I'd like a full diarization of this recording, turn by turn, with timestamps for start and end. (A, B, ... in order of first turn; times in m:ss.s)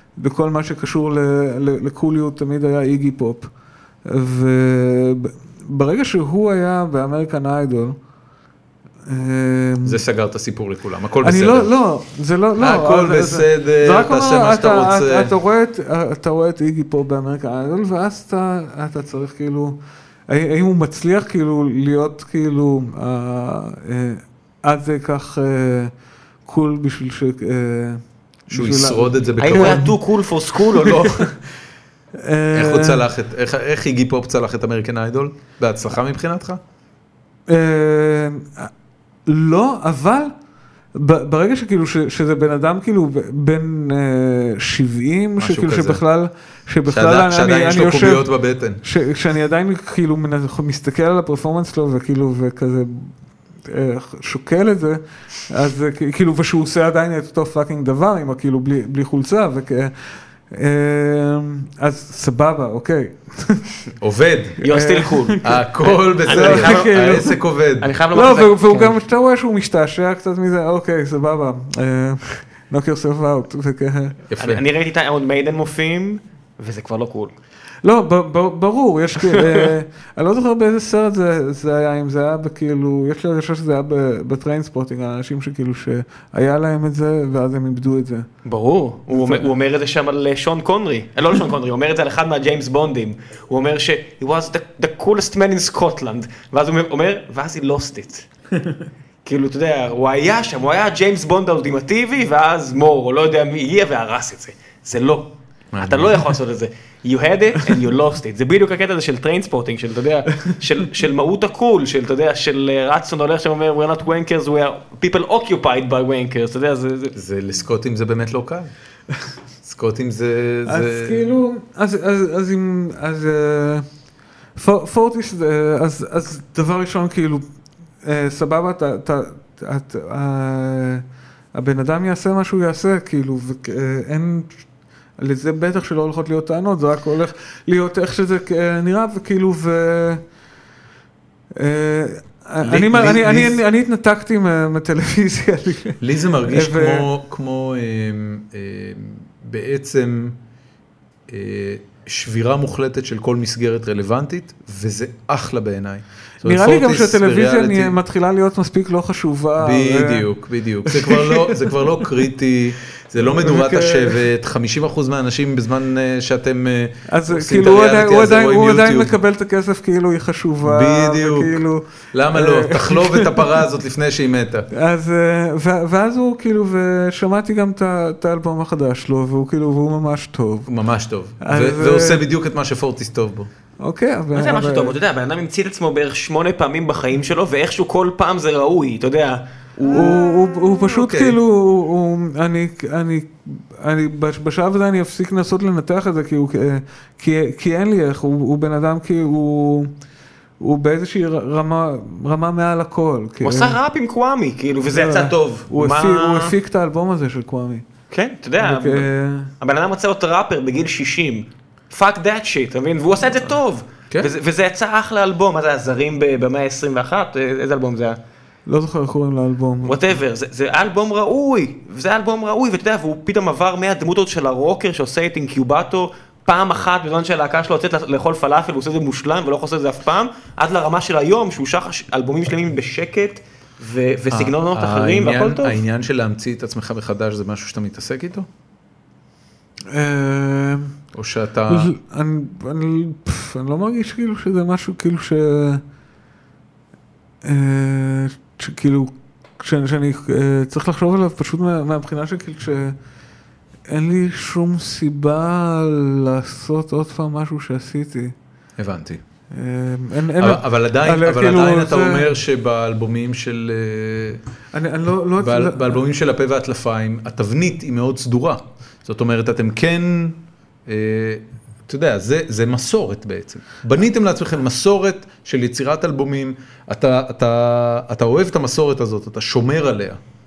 0:00.2-0:03.5 A
0:04.0-0:08.0 A
0:09.0-0:10.0 A
0:09.8-0:11.7 B
0:11.2-0:19.8 A
0:12.6-0:15.3 B
0:20.3-0:25.9 A
0:26.4-0:30.0 A
0:28.5-0:30.0 B
0:29.4-0:31.3 C
0:30.7-0:31.3 A
0:32.1-0:33.1 A
0:32.5-0:36.6 B
0:37.5-0:38.7 A
0:39.3-0:40.3 A
0:40.9-0:48.3 A
0:45.4-0:46.0 B
0:46.9-0:48.8 B
0:48.8-0:53.1 A
0:53.6-1:03.8 A
1:04.0-1:04.6 B
1:04.6-1:05.5 C
1:04.6-1:05.6 A
1:05.4-1:07.9 B
1:06.2-1:07.2 C
1:06.2-1:07.4 A
1:07.8-1:09.0 C
1:08.1-1:14.2 A
1:14.3-1:14.6 B
1:14.4-1:17.3 C
1:17.8-1:28.3 A
1:19.3-1:19.7 C
1:28.4-1:38.3 C
1:39.2-1:57.2 C
1:45.7-1:46.3 B
1:57.2-1:58.7 B
1:59.6-2:01.2 B
2:00.6-2:03.8 A
2:04.6-2:07.4 A
2:08.0-2:14.5 A
2:15.2-2:20.2 A
2:21.5-2:27.1 A
2:22.6-2:23.6 B
2:26.0-2:30.4 B
2:31.3-2:38.0 B
2:36.4-2:40.3 A
2:39.6-2:49.2 B
2:40.8-2:41.7 A
2:43.2-2:44.2 A
2:47.1-2:53.6 A
2:50.6-2:51.6 B
2:52.1-2:54.7 B
2:54.7-3:00.7 A
3:00.7-3:03.5 B
3:01.4-3:02.2 A
3:03.8-3:05.0 A
3:04.3-3:09.4 C
3:09.8-3:11.4 B
3:09.8-3:19.9 A
3:20.6-3:23.8 A
3:23.4-3:26.5 C
3:24.9-3:27.8 A
3:28.1-3:29.1 C
3:28.6-3:29.5 A
3:29.6-3:38.2 C
3:38.7-3:40.2 A
3:39.8-3:55.8 C
3:54.3-3:58.4 B
3:59.9-4:00.9 A
4:01.1-4:01.9 B
4:01.7-4:05.8 A
4:07.4-4:13.0 A
4:13.9-4:18.3 A
4:18.8-4:19.2 B
4:19.5-4:22.3 A
4:20.4-4:24.4 B
4:24.7-4:26.0 A
4:25.4-4:40.2 B